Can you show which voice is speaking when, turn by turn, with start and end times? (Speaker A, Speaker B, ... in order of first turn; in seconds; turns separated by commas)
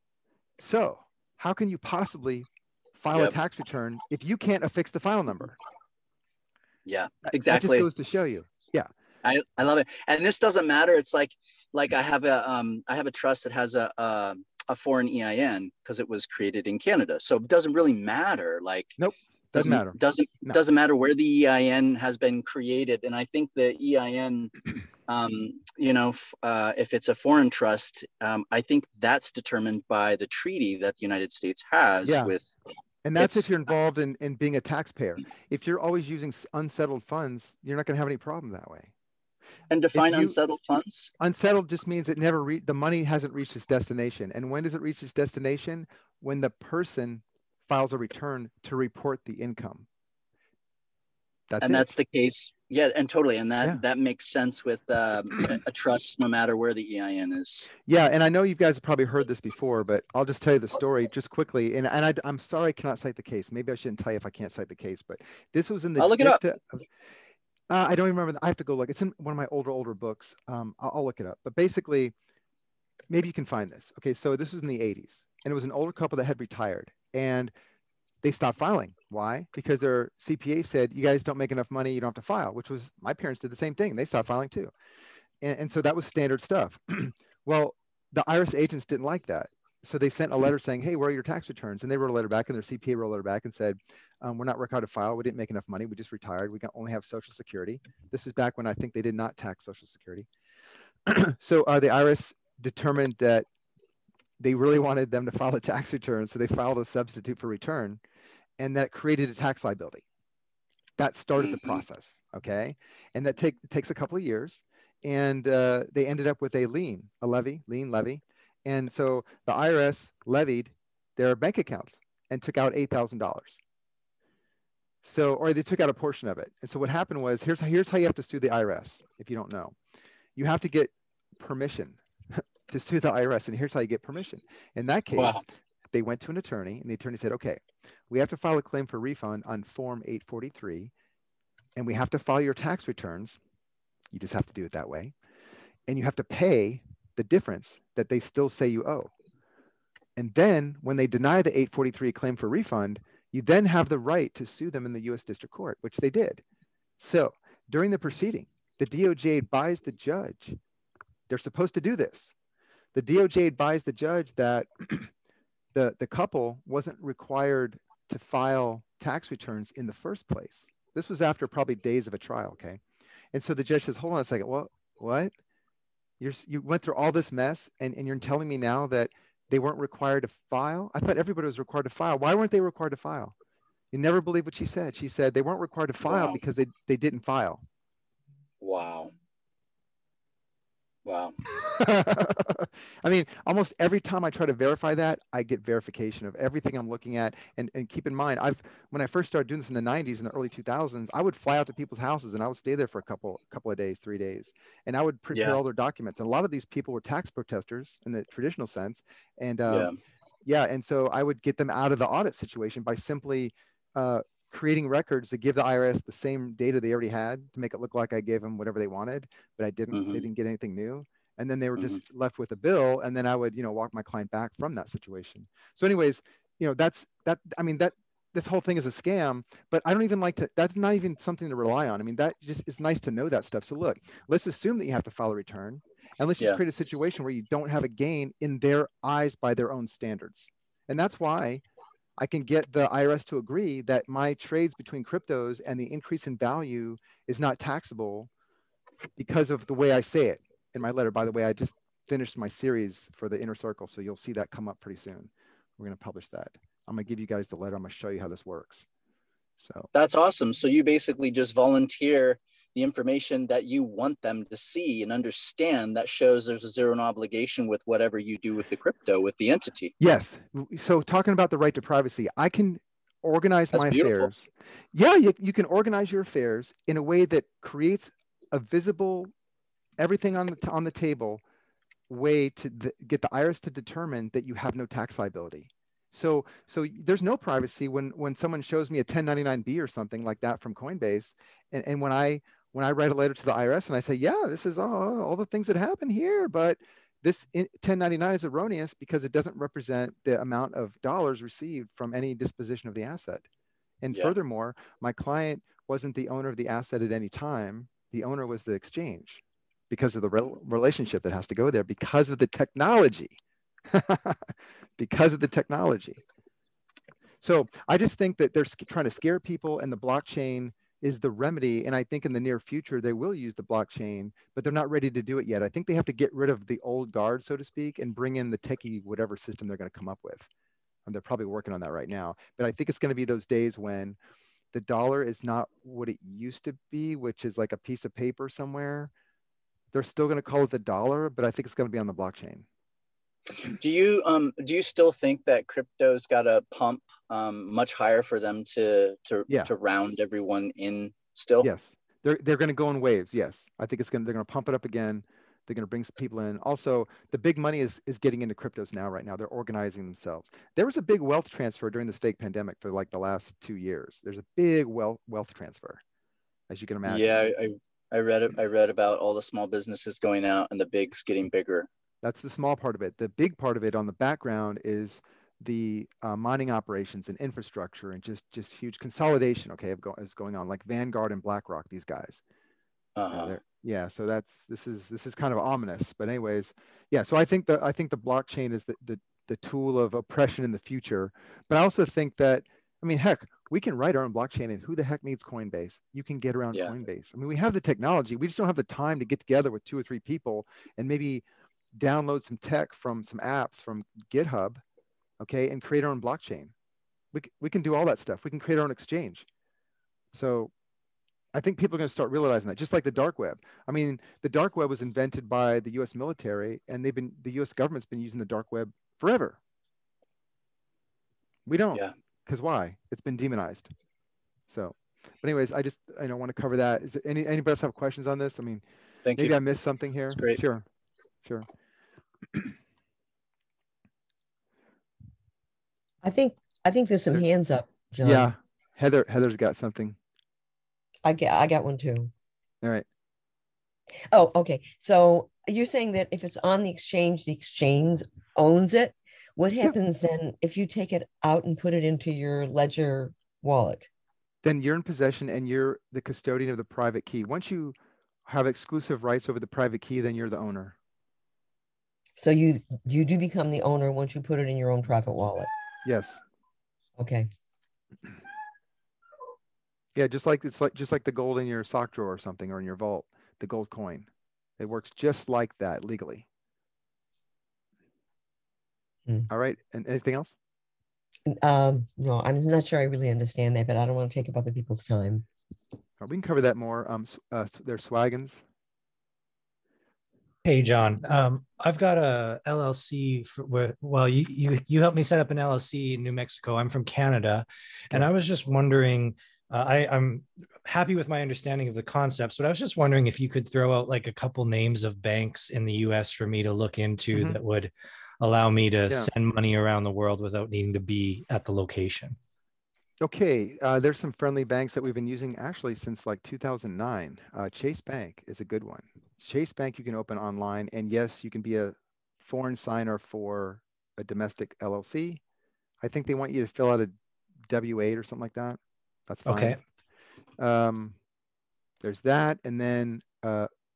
Speaker A: 0.6-5.6, Speaker B: 6.8-7.9, Speaker A: 7.2-8.9, Speaker B: 9.2-19.0, Speaker A: 19.0-20.6, Speaker B: 19.6-24.5, Speaker B: 25.1-32.5, Speaker A: 32.0-32.3, Speaker A: 33.0-38.9, Speaker B: 33.2-33.5, Speaker B: 39.7-41.1, Speaker A: 39.9-40.4, Speaker A: 41.2-49.9, Speaker A: 51.5-51.9, Speaker B: 51.6-57.7, Speaker A: 57.9-66.8, Speaker B: 66.0-66.4, Speaker A: 67.7-72.1, Speaker A: 73.1-77.5, Speaker A: 78.2-84.7, Speaker A: 85.4-100.3, Speaker A: 101.1-103.5, Speaker A: 104.4-108.0, Speaker A: 108.6-110.0, Speaker A: 111.0-123.6, Speaker B: 111.4-111.8, Speaker A: 125.0-129.8, Speaker A: 130.4-140.9, Speaker B: 135.1-135.4, Speaker A: 141.8-143.4, Speaker A: 144.1-145.1, Speaker A: 145.9-149.1, Speaker A: 150.2-156.4, Speaker A: 157.0-160.6, Speaker A: 161.3-162.3, Speaker A: 162.9-165.1, Speaker A: 165.7-172.8, Speaker A: 173.3-175.3, Speaker A: 176.2-183.3, Speaker A: 183.9-187.6, Speaker B: 186.0-186.4, Speaker B: 188.6-189.1, Speaker B: 191.1-191.4, Speaker A: 191.6-209.9, Speaker B: 205.3-205.6, Speaker B: 209.7-209.9, Speaker A: 210.4-241.6, Speaker B: 219.9-220.3, Speaker A: 242.2-248.3, Speaker A: 249.2-258.9, Speaker A: 259.6-259.9, Speaker B: 259.9-269.9, Speaker A: 270.0-274.4, Speaker B: 273.7-274.3, Speaker A: 274.9-279.3, Speaker A: 280.0-281.4, Speaker A: 282.1-303.5, Speaker A: 304.0-313.4, Speaker A: 313.9-314.4, Speaker A: 315.0-316.2, Speaker A: 317.4-330.5, Speaker A: 331.1-334.2, Speaker A: 334.7-339.1, Speaker A: 339.9-342.7, Speaker B: 343.6-351.7, Speaker A: 351.6-366.0, Speaker A: 366.7-367.5, Speaker B: 367.1-371.9, Speaker A: 372.2-382.4, Speaker B: 383.1-383.6, Speaker A: 383.3-404.8, Speaker A: 405.4-406.7, Speaker A: 407.3-409.5, Speaker A: 410.3-410.7, Speaker A: 411.5-419.6, Speaker A: 421.7-423.9, Speaker A: 424.7-428.8, Speaker B: 429.2-429.6, Speaker A: 429.4-430.9, Speaker B: 430.3-430.6, Speaker C: 436.2-438.5, Speaker A: 438.2-440.2, Speaker C: 441.2-442.3, Speaker C: 444.3-454.1, Speaker A: 454.6-457.9, Speaker A: 458.5-460.9, Speaker C: 462.4-465.7, Speaker A: 466.1-466.4, Speaker C: 467.2-467.5, Speaker A: 470.2-474.3, Speaker A: 474.8-476.5, Speaker A: 479.5-480.6, Speaker C: 481.5-485.5, Speaker A: 486.2-488.6, Speaker D: 490.6-512.4, Speaker A: 507.3-507.6, Speaker A: 513.2-525.4, Speaker A: 526.0-527.1, Speaker A: 527.7-529.8, Speaker D: 529.5-529.8, Speaker A: 530.6-531.2, Speaker A: 532.0-533.7